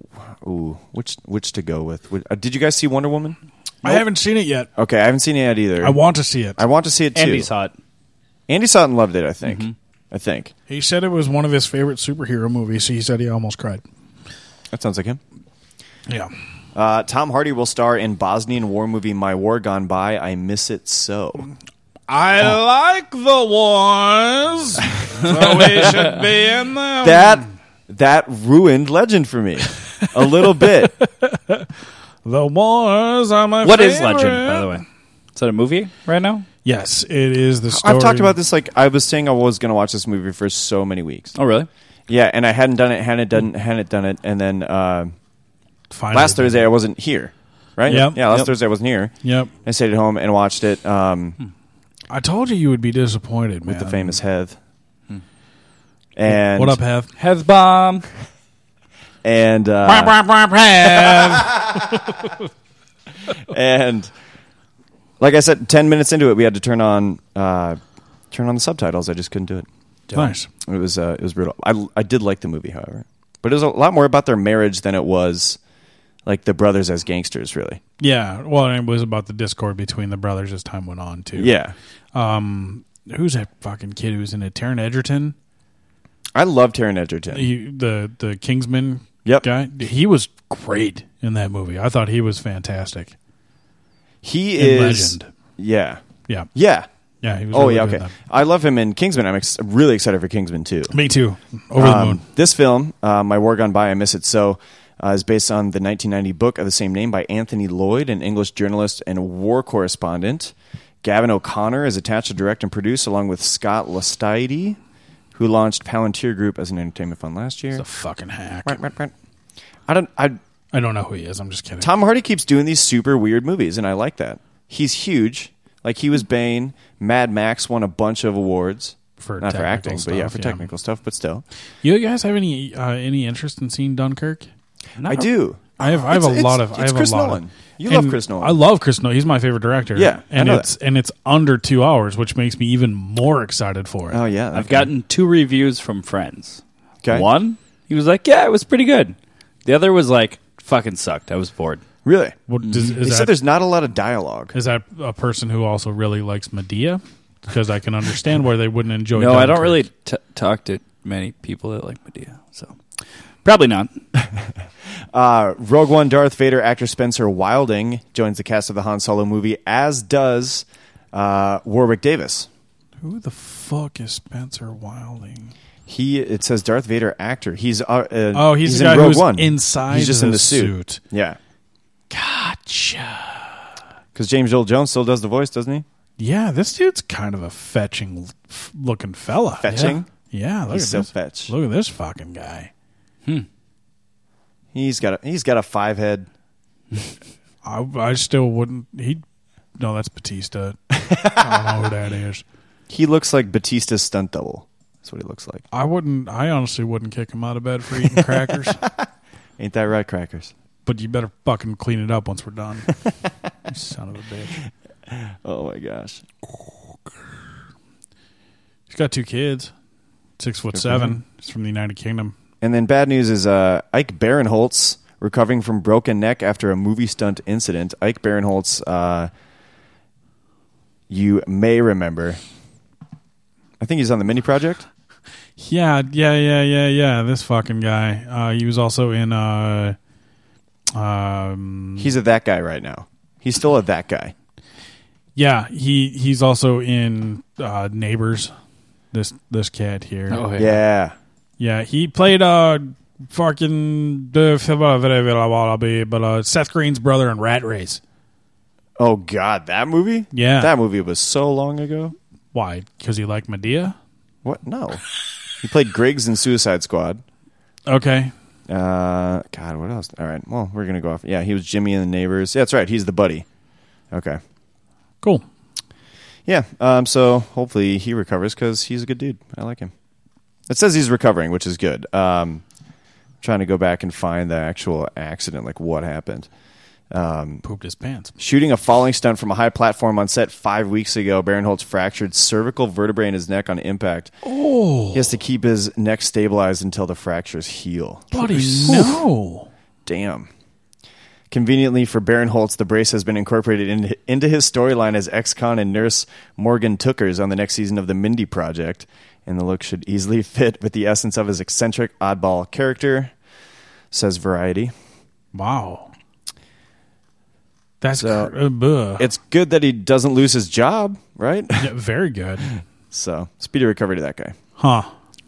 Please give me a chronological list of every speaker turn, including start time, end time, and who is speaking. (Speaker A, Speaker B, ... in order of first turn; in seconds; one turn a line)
Speaker A: 0.4-4.0
Speaker B: 3.8-4.7
Speaker A: 4.8-6.0
Speaker B: 5.8-6.6
Speaker A: 6.6-7.5
Speaker C: 7.1-7.7
Speaker A: 8.5-10.5
Speaker C: 9.4-9.7
Speaker B: 10.7-13.8
Speaker A: 14.7-15.2
Speaker A: 16.7-21.5
Speaker B: 22.1-27.4
Speaker C: 25.5-26.0
Speaker A: 27.0-30.9
Speaker B: 31.2-31.6
Speaker B: 32.2-34.7
Speaker C: 33.6-36.5
Speaker B: 36.6-38.3
Speaker A: 37.7-41.3
Speaker C: 41.4-41.7
Speaker A: 42.1-45.1
Speaker B: 45.9-46.6
Speaker A: 46.1-49.1
Speaker B: 47.9-48.4
Speaker B: 49.2-49.5
Speaker A: 49.6-51.4
Speaker B: 52.1-54.2
Speaker A: 53.7-54.6
Speaker A: 56.1-56.8
Speaker B: 56.3-57.1
Speaker C: 57.2-58.0
Speaker A: 59.2-60.1
Speaker B: 59.9-61.6
Speaker A: 61.0-61.8
Speaker A: 63.5-64.1
Speaker A: 65.2-67.8
Speaker A: 68.3-69.7
Speaker B: 70.1-70.5
Speaker A: 70.6-75.6
Speaker A: 76.2-77.8
Speaker B: 78.0-81.5
Speaker A: 81.3-81.7
Speaker B: 82.1-85.3
Speaker A: 86.3-87.5
Speaker B: 87.3-93.2
Speaker A: 94.2-96.0
Speaker B: 94.6-95.3
Speaker A: 96.5-96.9
Speaker B: 97.2-98.1
Speaker A: 97.5-100.9
Speaker B: 100.9-102.2
Speaker A: 101.8-114.8
Speaker A: 115.3-117.8
Speaker B: 117.7-118.8
Speaker A: 118.6-119.1
Speaker A: 119.9-120.4
Speaker B: 120.7-121.9
Speaker A: 121.8-131.4
Speaker B: 129.2-130.7
Speaker B: 131.8-134.5
Speaker C: 135.0-135.3
Speaker A: 135.0-138.6
Speaker B: 135.8-144.2
Speaker A: 139.9-140.7
Speaker A: 144.1-144.9
Speaker C: 144.5-151.8
Speaker A: 152.0-152.3
Speaker B: 152.5-153.3
Speaker C: 152.6-153.0
Speaker A: 153.0-154.5
Speaker B: 154.5-159.8
Speaker C: 159.2-162.8
Speaker C: 163.4-163.9
Speaker A: 165.1-172.5
Speaker B: 173.0-175.5
Speaker A: 175.9-181.4
Speaker B: 178.3-181.0
Speaker B: 182.1-183.6
Speaker A: 184.1-185.8
Speaker B: 186.2-192.7
Speaker A: 189.6-190.1
Speaker A: 190.7-191.5
Speaker A: 194.7-196.3
Speaker B: 197.6-199.2
Speaker B: 199.8-200.8
Speaker A: 201.0-201.3
Speaker B: 201.3-202.4
Speaker A: 202.9-205.6
Speaker B: 205.7-208.8
Speaker A: 208.0-208.9
Speaker A: 209.6-210.5
Speaker B: 210.8-212.9
Speaker B: 213.7-214.6
Speaker A: 215.1-216.2
Speaker B: 218.9-219.7
Speaker B: 220.4-222.3
Speaker A: 220.7-221.2
Speaker A: 222.6-229.3
Speaker A: 231.1-232.4
Speaker A: 233.8-234.8
Speaker B: 235.6-239.9
Speaker B: 240.9-242.1
Speaker A: 242.0-244.3
Speaker B: 245.3-248.5
Speaker B: 249.1-250.5
Speaker C: 250.3-250.8
Speaker A: 250.6-251.2
Speaker B: 251.6-258.0
Speaker A: 259.0-262.1
Speaker B: 260.3-260.7
Speaker B: 262.5-263.9
Speaker A: 264.4-265.0
Speaker A: 265.6-267.2
Speaker B: 267.9-268.3
Speaker A: 268.7-273.4
Speaker A: 274.1-274.4
Speaker A: 276.4-279.9
Speaker A: 280.7-282.6
Speaker A: 283.4-286.5
Speaker A: 287.1-287.6
Speaker B: 287.6-288.3
Speaker A: 288.4-294.3
Speaker B: 294.4-295.2
Speaker A: 295.1-299.2
Speaker B: 298.3-299.7
Speaker C: 298.8-299.1
Speaker A: 300.1-300.5
Speaker A: 301.5-313.3
Speaker A: 314.1-314.9
Speaker B: 315.5-316.1
Speaker B: 318.0-319.2
Speaker A: 318.2-318.5
Speaker A: 319.2-321.9
Speaker B: 321.8-322.7
Speaker A: 322.7-324.6
Speaker B: 324.8-325.1